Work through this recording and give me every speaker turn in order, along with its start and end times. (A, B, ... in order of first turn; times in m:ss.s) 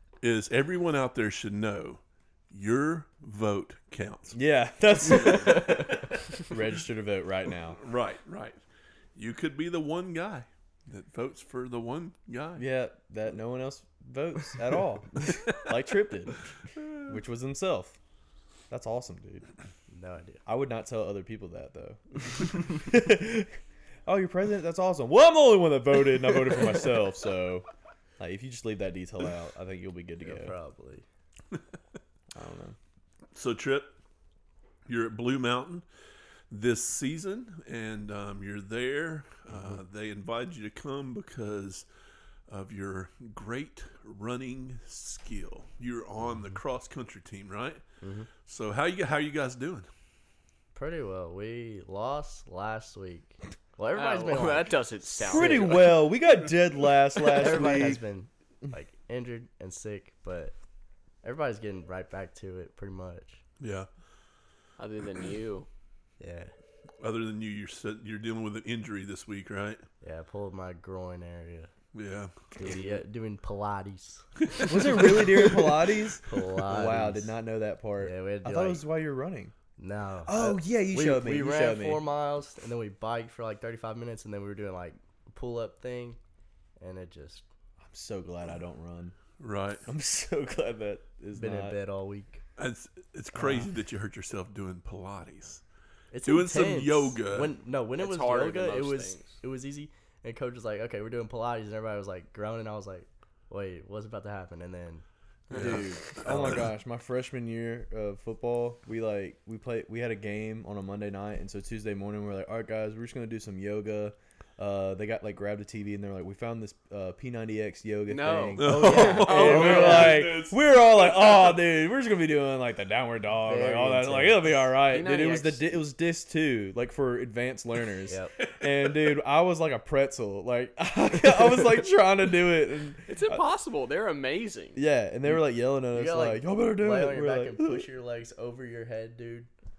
0:00.2-0:04.4 A
0:04.3-0:07.8 B
0:05.4-0:05.9 C
0:07.8-0:08.6 A
0:09.2-0:12.6 A
0:12.6-0:16.4 B
0:17.0-0:18.0 B
0:18.7-0:19.5 B
0:19.9-0:20.4 C
0:20.5-0:23.5 B
0:24.1-0:27.7 B
0:28.2-0:30.5 B
0:30.2-0:31.0 C
0:32.3-0:32.8 B
0:33.3-0:33.9 A
0:34.9-0:35.8 A
0:36.5-0:41.9 A
0:42.5-0:47.8 A
0:48.0-0:48.3 C
0:48.5-0:49.9 A
0:50.7-0:55.8 C
0:53.9-0:56.0 D
0:55.2-0:58.0 B
0:57.2-1:00.6 C
1:01.2-1:03.4 C
1:03.6-1:03.9 A
1:04.8-1:05.7 D
1:06.2-1:06.5 C
1:07.0-1:09.8 A
1:10.0-1:11.7 C
1:11.9-1:12.3 A
1:12.6-1:17.4 C
1:14.7-1:19.5 B
1:18.0-1:18.8 C
1:19.8-1:26.2 C
1:20.2-1:22.0 B
1:26.8-1:27.4 C
1:27.8-1:29.2 B
1:29.4-1:29.8 A
1:29.9-1:31.8 B
1:31.4-1:32.4 C
1:32.6-1:35.6 A
1:33.4-1:33.7 B
1:36.1-1:46.7 C
1:36.2-1:37.6 A
1:38.0-1:39.4 D
1:45.5-2:13.4 B
1:45.5-1:45.8 A
1:58.1-2:00.2 D
1:58.6-2:01.5 A
1:58.7-2:00.4 C
2:03.4-2:04.7 C
2:04.9-2:05.7 D
2:08.1-2:08.3 C
2:13.1-2:14.8 D
2:14.8-2:17.9 B
2:15.9-2:19.5 C